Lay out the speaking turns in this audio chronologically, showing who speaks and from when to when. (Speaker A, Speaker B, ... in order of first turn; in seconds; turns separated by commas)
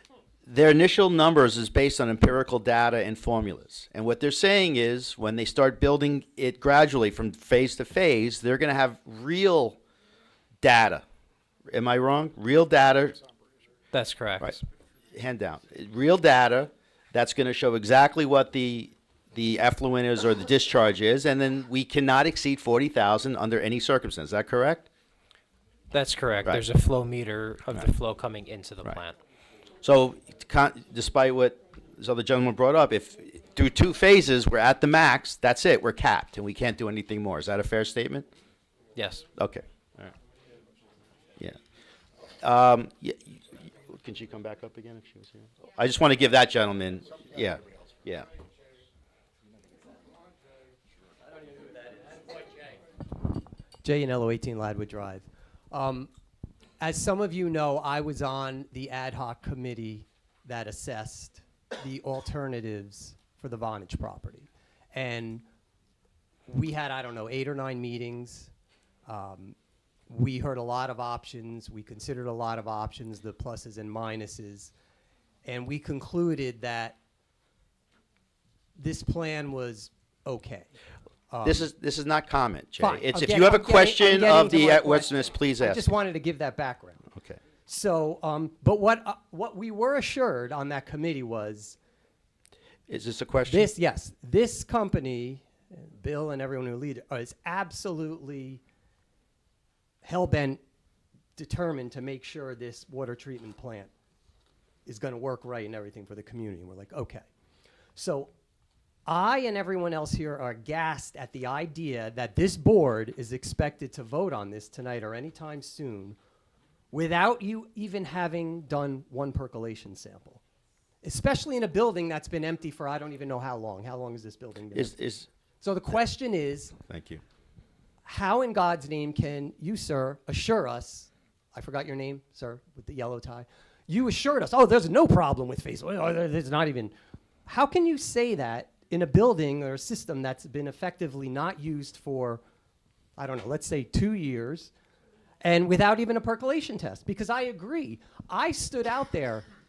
Speaker A: 0.5-9.8, Speaker A: 10.6-11.0, Speaker A: 11.7-13.2, Speaker B: 13.9-14.5, Speaker A: 15.1-24.9, Speaker B: 25.9-29.2, Speaker A: 29.8-38.3, Speaker B: 39.0-39.3, Speaker A: 39.4-40.1, Speaker A: 42.4-48.3, Speaker C: 53.8-56.1, Speaker C: 56.8-65.4, Speaker C: 66.5-68.5, Speaker C: 69.1-69.6, Speaker C: 70.1-74.7, Speaker C: 75.5-77.0, Speaker C: 78.8-80.7, Speaker C: 81.3-81.7, Speaker A: 81.4-85.9, Speaker C: 82.8-87.1, Speaker C: 87.7-91.8, Speaker A: 92.9-93.7, Speaker C: 93.5-98.6, Speaker C: 100.0-100.6, Speaker C: 101.4-103.9, Speaker C: 104.9-107.2, Speaker C: 108.0-108.3, Speaker C: 109.1-116.2, Speaker C: 116.9-120.4, Speaker C: 121.0-125.0, Speaker A: 124.7-125.3, Speaker C: 125.6-126.8, Speaker A: 126.9-127.2, Speaker C: 128.1-136.9, Speaker C: 137.5-142.4, Speaker C: 143.2-144.7, Speaker C: 145.4-149.5